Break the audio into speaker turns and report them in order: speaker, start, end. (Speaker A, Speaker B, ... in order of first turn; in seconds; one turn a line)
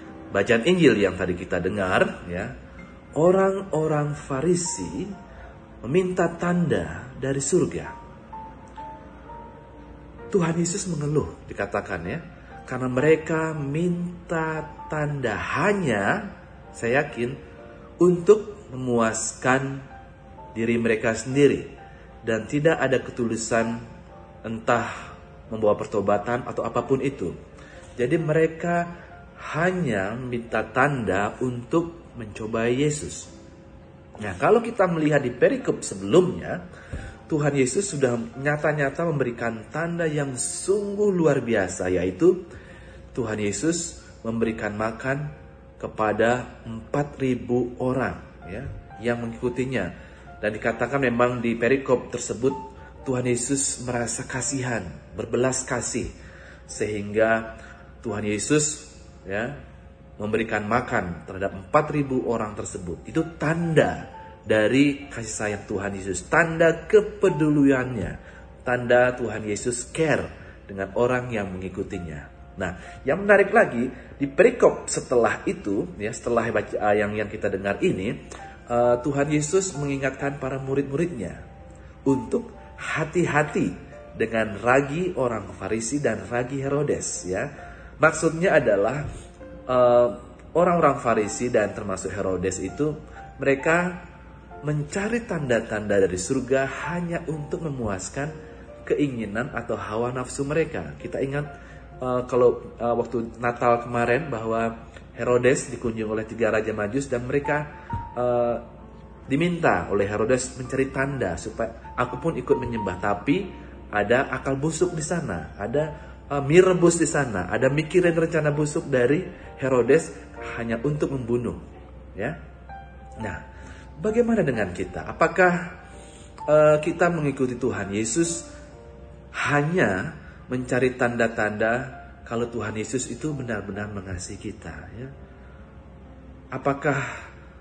Speaker A: 0.3-2.5
Speaker A: 3.1-5.1
Speaker A: 5.8-7.9
Speaker A: 10.3-16.2
Speaker A: 16.7-17.4
Speaker A: 18.0-19.8
Speaker A: 20.5-21.7
Speaker A: 22.2-23.8
Speaker A: 24.4-24.9
Speaker A: 25.5-27.3
Speaker A: 28.0-28.9
Speaker A: 29.4-33.3
Speaker A: 34.2-36.6
Speaker A: 37.3-42.4
Speaker A: 43.1-56.1
Speaker A: 56.7-57.5
Speaker A: 58.0-59.5
Speaker A: 60.2-78.2
Speaker A: 78.7-81.4
Speaker A: 82.0-87.5
Speaker A: 88.0-89.0
Speaker A: 89.7-94.0
Speaker A: 94.6-98.3
Speaker A: 98.8-101.5
Speaker A: 102.0-108.6
Speaker A: 109.3-121.6
Speaker A: 124.0-125.6
Speaker A: 126.5-128.4
Speaker A: 129.4-135.1
Speaker A: 136.5-137.1